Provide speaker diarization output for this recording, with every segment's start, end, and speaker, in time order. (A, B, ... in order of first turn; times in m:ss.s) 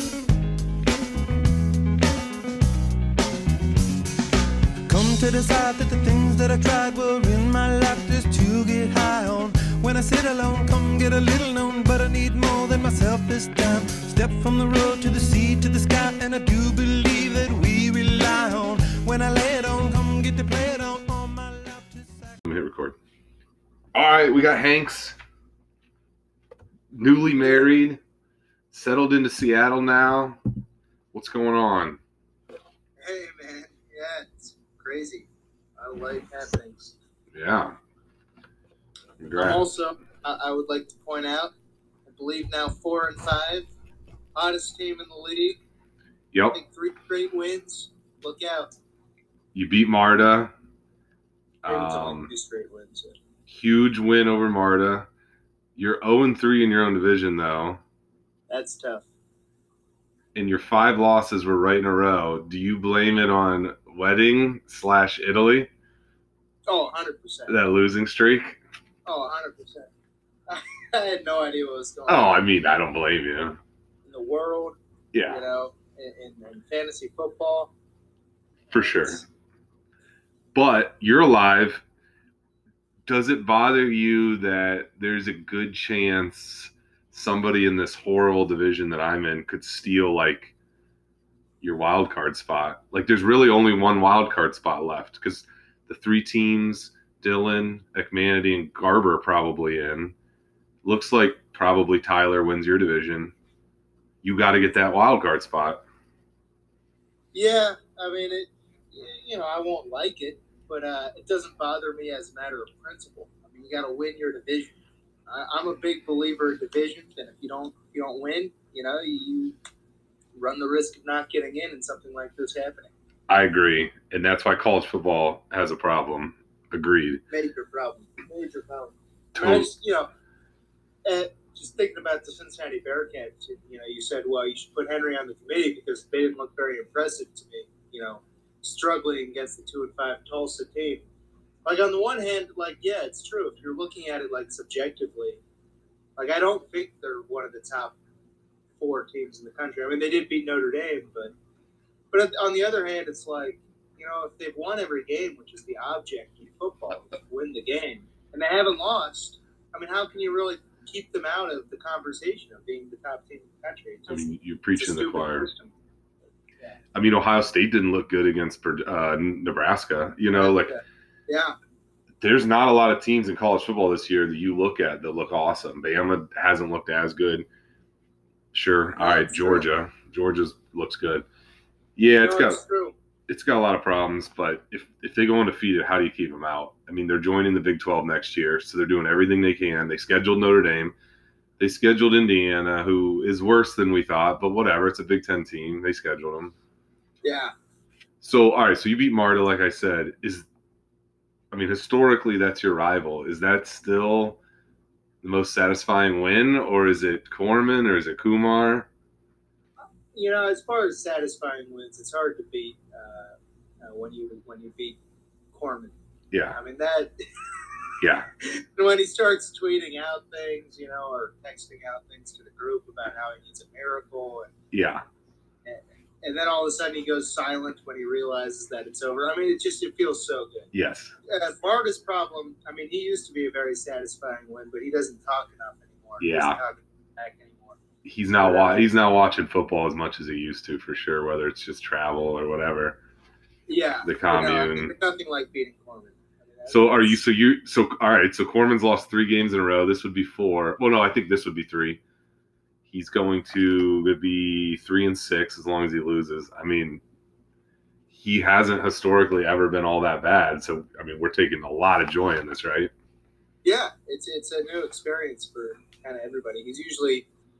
0:04.9-0:22.4 A
0:22.4-0:23.0 B
0:23.9-0:25.2 B
0:26.9-0:28.0 B
0:28.7-0:30.4 B
0:31.1-0:32.0 B
0:33.0-0:37.0 C
0:37.3-0:37.8 B
0:39.2-0:39.6 B
0:39.3-0:41.5 C
0:42.1-0:43.7 C
0:44.3-0:45.6 C
0:46.3-0:46.6 B
0:46.5-0:48.7 C
0:49.5-0:50.5 B
0:51.6-0:52.3 B
0:51.6-0:53.2 C
0:53.5-0:55.1 B
0:55.8-0:57.8 B
0:58.5-0:59.0 C
1:00.3-1:05.7 B
1:06.7-1:07.6 C
1:07.5-1:08.6 B
1:09.0-1:09.9 C
1:10.5-1:12.4 C
1:12.1-1:13.6 B
1:14.1-1:14.8 C
1:15.1-1:15.4 B
1:15.3-1:17.7 C
1:18.7-1:19.2 B
1:18.7-1:19.2 C
1:20.5-1:21.8 B
1:23.0-1:30.5 B
1:31.6-1:40.1 B
1:40.8-1:43.3 B
1:44.2-1:45.8 B
1:47.3-1:54.8 C
1:55.3-1:59.6 C
2:00.4-2:02.9 C
2:03.3-2:07.2 B
2:07.3-2:10.1 C
2:09.3-2:09.7 B
2:11.0-2:21.0 C
2:21.6-2:25.4 C
2:26.2-2:28.0 C
2:28.8-2:31.3 C
2:32.1-2:45.7 C
2:44.1-2:45.5 B
2:46.9-2:50.7 B
2:50.3-2:51.5 C
2:52.2-2:57.4 B
2:58.5-3:01.2 B
2:59.0-2:59.7 C
3:02.0-3:02.6 B
3:02.2-3:02.9 C
3:03.3-3:10.9 B
3:11.6-3:16.5 B
3:17.2-3:17.5 C
3:18.2-3:20.4 B
3:21.5-3:24.4 B
3:25.2-3:28.9 B
3:30.1-3:35.0 C
3:35.5-3:35.9 C
3:36.3-3:36.6 B
3:36.5-3:37.1 C
3:38.0-3:38.3 B
3:38.4-3:44.5 C
3:44.7-3:45.0 B
3:45.6-3:50.7 C
3:50.7-3:51.1 B
3:51.3-3:57.8 C
3:56.2-3:56.6 B
3:58.0-4:03.0 B
3:58.3-3:58.9 C
4:03.7-4:07.2 C
4:04.0-4:04.9 B
4:06.7-4:12.0 B
4:12.9-4:17.0 B
4:18.1-4:22.9 B
4:23.6-4:27.2 C